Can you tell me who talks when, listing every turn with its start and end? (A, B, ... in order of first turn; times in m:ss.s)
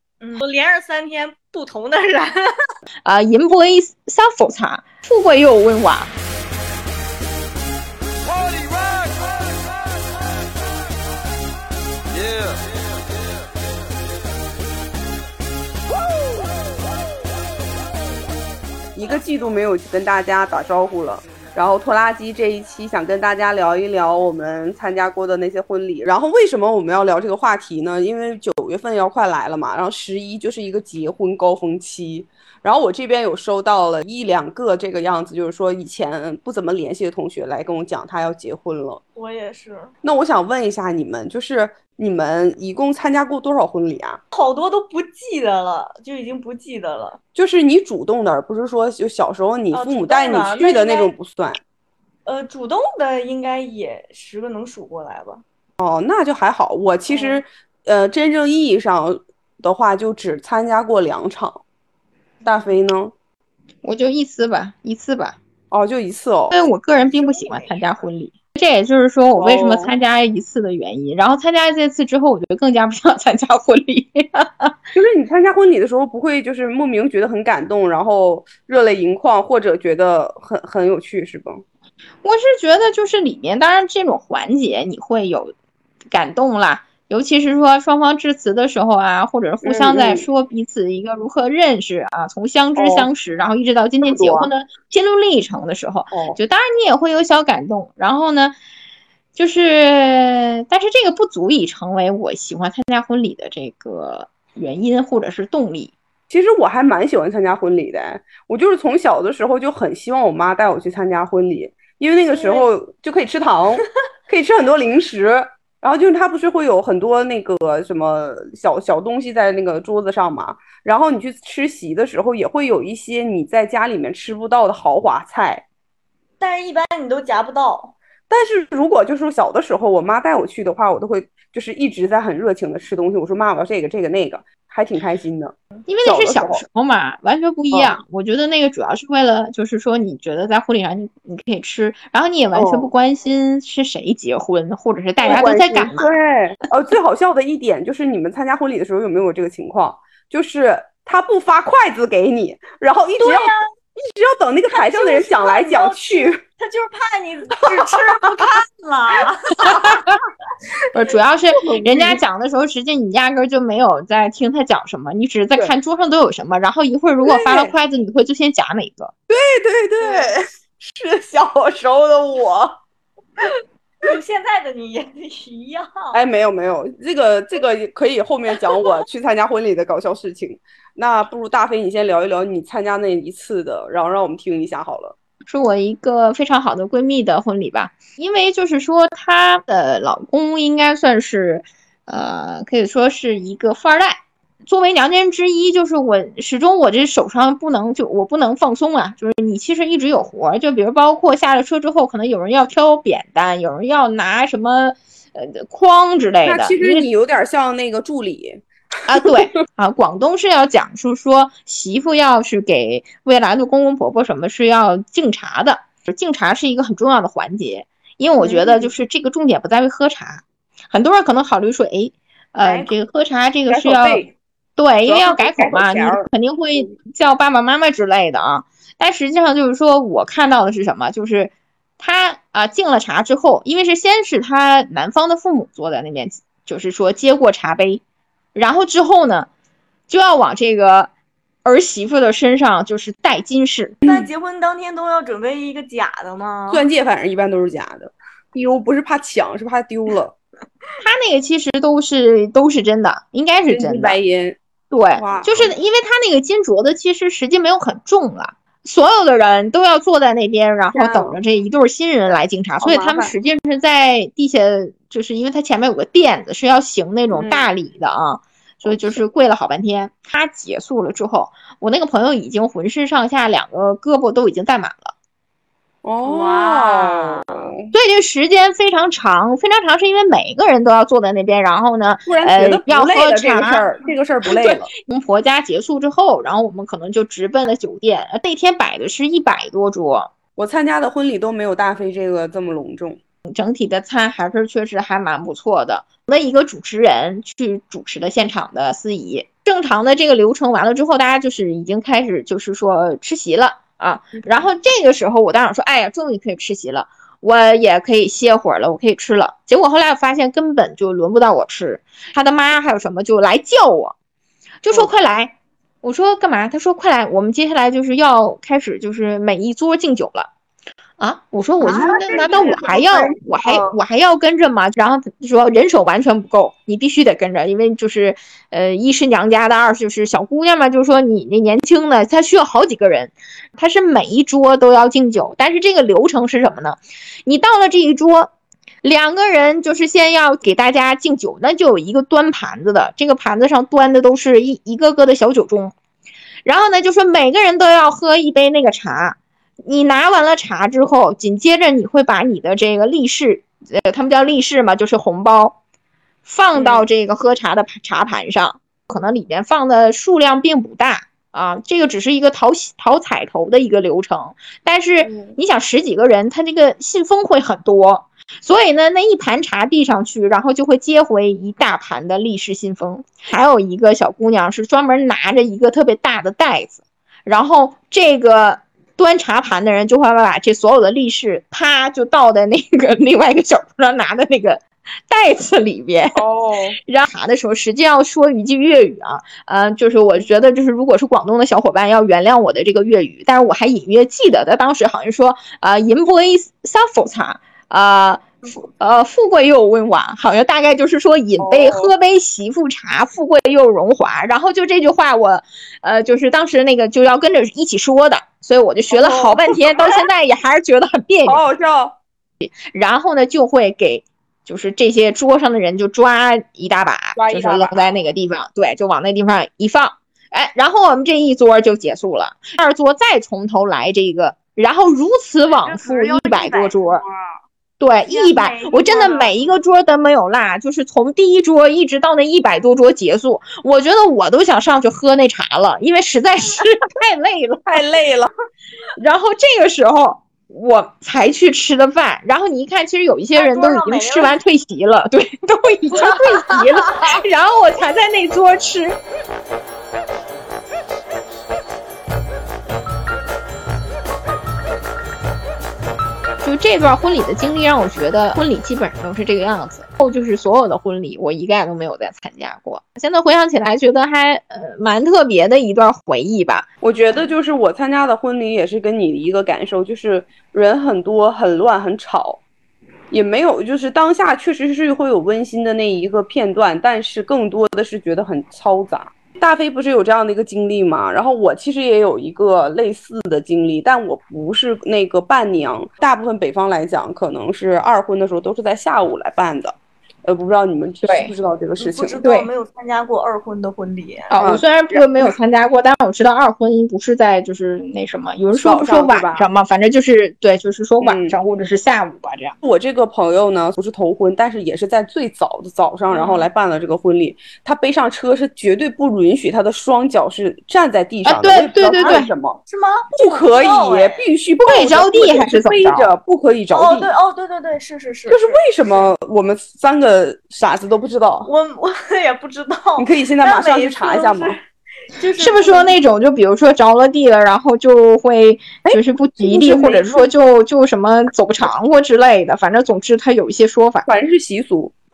0:00.2-0:02.5 A
0:03.0-0:06.1 B
0:18.9-0:39.0 C
0:39.2-0:39.9 A
0:40.0-0:44.2 C
0:44.3-0:47.2 A
0:47.3-0:51.6 C
0:49.7-0:51.1 A
0:52.2-0:55.4 A
0:55.8-1:01.6 C
0:57.1-0:57.4 A
1:02.4-1:02.7 A
1:02.4-1:03.1 C
1:03.8-1:05.4 B
1:05.7-1:06.6 C
1:06.5-1:14.7 B
1:07.0-1:08.0 A
1:09.4-1:10.0 C
1:14.9-1:21.6 C
1:22.2-1:25.5 B
1:26.1-1:38.5 B
1:29.6-1:30.3 C
1:32.8-1:33.1 C
1:34.0-1:34.5 C
1:36.1-1:36.4 C
1:39.3-1:45.9 B
1:46.3-2:05.6 C
1:52.3-1:52.7 A
2:06.4-2:07.9 A
2:08.3-2:16.6 C
2:15.9-2:26.1 B
2:17.7-2:18.0 C
2:22.5-2:22.9 C
2:25.2-2:36.4 C
2:33.2-2:33.6 A
2:34.7-2:39.9 A
2:37.6-2:38.0 C
2:39.7-2:40.2 B
2:40.9-2:49.1 B
2:41.5-2:42.2 C
2:47.2-2:47.7 C
2:49.3-2:52.8 C
2:50.0-2:50.3 A
2:54.0-2:56.2 A
2:56.1-3:05.2 C
3:05.4-3:27.1 B
3:26.4-3:29.3 C
3:29.1-3:44.2 B
3:38.4-3:38.9 C
3:42.6-3:42.9 A
3:43.7-3:44.3 C
3:44.8-3:58.0 B
3:45.0-3:46.9 C
3:58.5-3:59.5 B
4:00.1-4:01.1 B
4:01.6-4:04.0 B
4:04.0-4:04.3 C
4:04.0-4:06.9 A
4:06.7-4:10.4 C
4:11.0-4:14.2 B
4:13.7-4:14.6 C
4:14.9-4:35.1 B
4:15.1-4:15.7 C
4:20.9-4:21.4 C
4:22.8-4:23.3 C
4:27.3-4:27.7 C
4:28.8-4:29.2 C
4:36.0-4:37.9 C
4:36.2-4:37.7 A
4:37.9-4:43.9 B
4:42.3-4:44.9 C
4:44.4-4:50.3 B
4:50.6-4:53.2 C
4:53.5-5:14.1 B
5:14.8-5:20.5 B
5:21.2-5:45.9 B
5:21.8-5:23.2 A
5:22.3-5:23.9 C
5:46.6-5:55.8 B
5:56.4-6:26.4 B
5:56.7-5:57.0 C
6:05.2-6:05.6 C
6:26.3-6:27.0 C
6:27.0-6:51.6 B
6:41.6-6:42.1 C
6:49.1-6:50.2 C
6:51.4-6:52.2 C
6:52.6-7:07.2 B
6:57.4-6:58.1 C
7:05.7-7:07.3 A
7:08.0-7:18.0 B
7:08.3-7:09.6 A
7:17.9-7:18.5 C
7:19.2-7:29.2 B
7:23.6-7:24.6 A
7:36.6-7:46.9 B
7:47.0-7:52.6 C
7:53.3-8:12.4 C
8:11.2-8:11.5 B
8:12.0-8:14.5 A
8:12.4-8:12.7 B
8:14.5-8:22.8 B
8:14.6-8:15.5 C
8:18.7-8:19.6 C
8:21.2-8:21.6 C
8:22.8-8:32.8 C
8:26.3-8:26.7 A
8:31.4-8:32.5 B
8:32.2-8:34.4 A
8:33.3-8:37.3 C
8:34.8-8:36.3 B
8:36.9-8:39.3 A
8:38.5-8:41.7 C
8:41.6-8:44.8 A
8:43.2-8:44.8 C
8:45.3-8:46.1 A
8:45.6-8:54.3 B
8:49.0-8:50.4 C
8:54.2-8:55.1 C